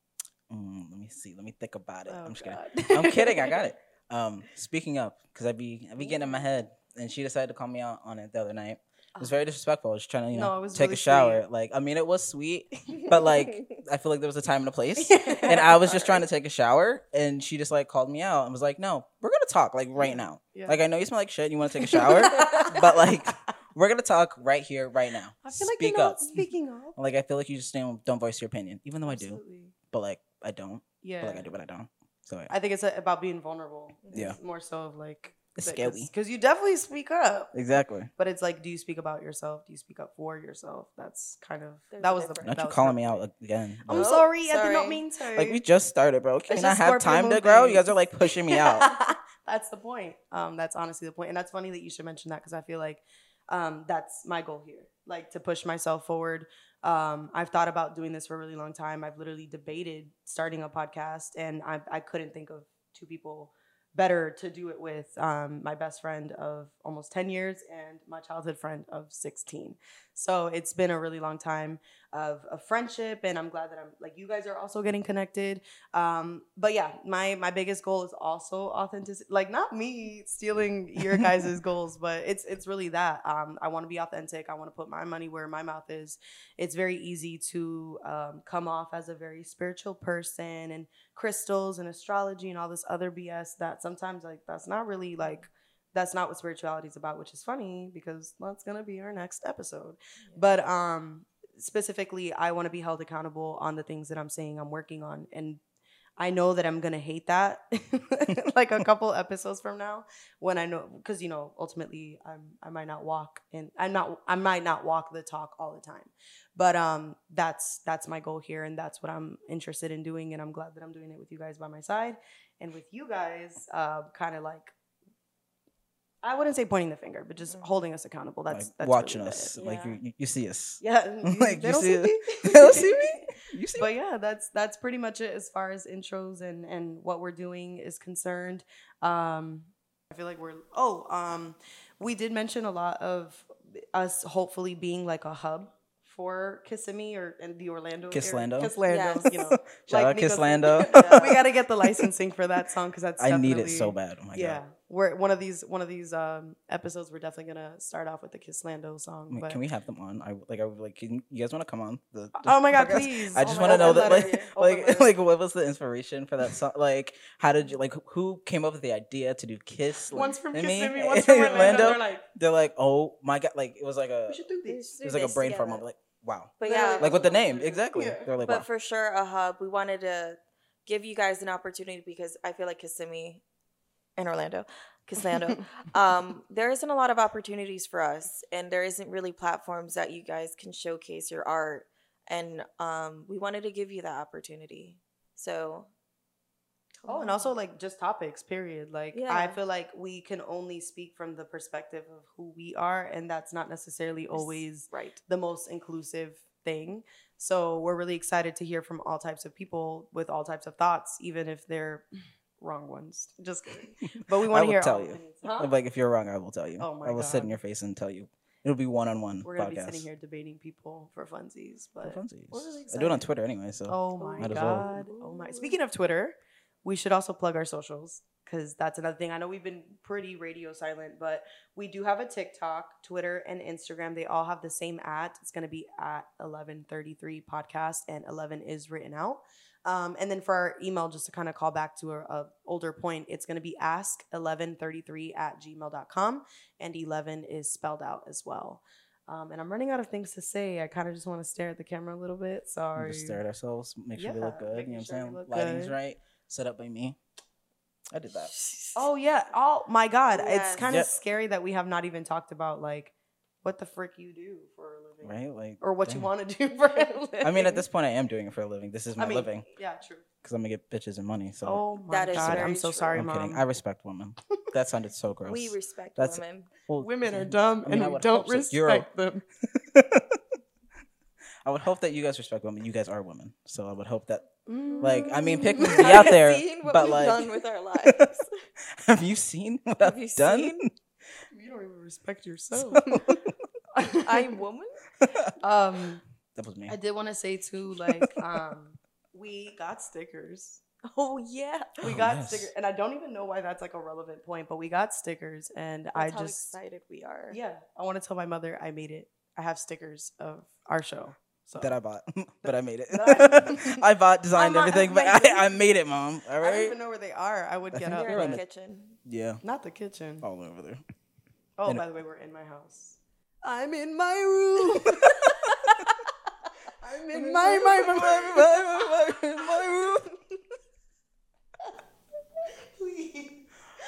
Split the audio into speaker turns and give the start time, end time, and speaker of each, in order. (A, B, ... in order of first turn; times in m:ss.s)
0:00.5-0:32.5 A
0:02.1-0:03.6 B
0:06.0-0:06.5 C
0:10.3-0:11.4 B
0:13.0-0:13.6 C
0:15.0-0:16.2 B
0:20.0-0:20.8 B
0:21.7-0:23.1 B
0:22.4-0:22.7 C
0:25.4-0:27.0 B
0:29.1-0:29.7 B
0:31.0-0:31.5 B
0:32.5-0:37.5 B
0:34.0-0:34.4 C
0:34.1-0:34.4 A
0:35.6-0:36.1 A
0:37.5-0:38.1 A
0:38.2-0:43.2 B
0:41.9-0:42.5 C
0:42.4-0:44.1 A
0:43.9-0:45.6 B
0:43.9-0:45.0 C
0:45.3-0:48.9 A
0:46.5-1:45.6 B
1:21.0-1:21.5 A
1:35.2-1:35.4 C
1:46.2-2:04.7 B
2:06.2-2:09.5 B
2:08.5-2:13.9 A
2:09.6-2:10.0 C
2:10.8-2:39.6 B
2:28.1-2:28.7 A
2:28.9-2:29.4 C
2:29.3-2:32.1 A
2:30.8-2:31.4 C
2:33.2-2:34.6 A
2:39.3-2:54.4 A
2:42.4-2:45.1 B
2:43.6-2:44.5 C
2:50.1-2:52.2 B
2:51.5-2:51.8 C
2:54.3-2:54.9 B
2:54.6-2:55.8 C
2:55.0-2:58.7 A
2:56.6-2:57.8 C
2:56.6-2:58.3 B
2:58.4-3:03.4 C
3:04.2-3:15.9 C
3:17.0-3:17.5 C
3:17.0-3:32.0 B
3:19.1-3:19.6 C
3:24.3-3:25.2 C
3:32.6-3:35.7 B
3:34.3-3:40.1 A
3:36.8-3:37.6 B
3:39.4-3:43.3 B
3:42.0-3:44.9 A
3:43.9-4:13.4 B
3:44.2-3:45.8 C
4:13.0-4:17.2 A
4:14.2-4:15.9 B
4:18.1-4:18.5 A
4:18.4-4:19.1 C
4:18.9-4:27.8 B
4:20.3-4:21.1 C
4:20.8-4:21.1 A
4:25.2-4:26.3 A
4:27.4-4:29.7 A
4:29.2-4:30.2 B
4:30.4-4:39.1 A
4:31.6-4:33.6 B
4:32.1-4:33.2 C
4:35.4-4:36.7 C
4:37.0-4:39.4 B
4:39.6-4:40.4 A
4:41.6-4:44.4 A
4:44.7-4:46.3 B
4:45.0-4:48.6 C
4:45.0-4:48.3 A
4:48.9-4:50.9 A
4:50.0-4:50.9 C
4:51.5-4:53.2 B
4:52.7-4:53.6 A
4:53.9-4:54.6 B
4:54.1-4:55.0 C
4:55.2-4:55.5 A
4:55.6-4:56.2 B
4:56.5-4:56.9 A
4:56.9-5:00.8 B
4:58.1-4:58.5 A
5:01.1-5:02.0 C
5:02.0-5:06.7 B
5:02.0-5:02.7 A
5:06.1-5:07.6 C
5:07.5-5:11.9 B
5:11.8-5:17.0 A
5:12.6-5:14.0 B
5:14.5-5:15.8 B
5:16.6-5:18.6 B
5:17.9-5:18.6 A
5:18.1-5:19.2 C
5:19.2-5:19.6 A
5:19.6-5:20.4 B
5:20.4-5:21.0 A
5:21.8-5:26.1 B
5:25.4-5:25.7 A
5:26.9-5:28.7 B
5:27.3-5:30.3 A
5:29.8-5:30.1 C
5:32.9-5:33.7 B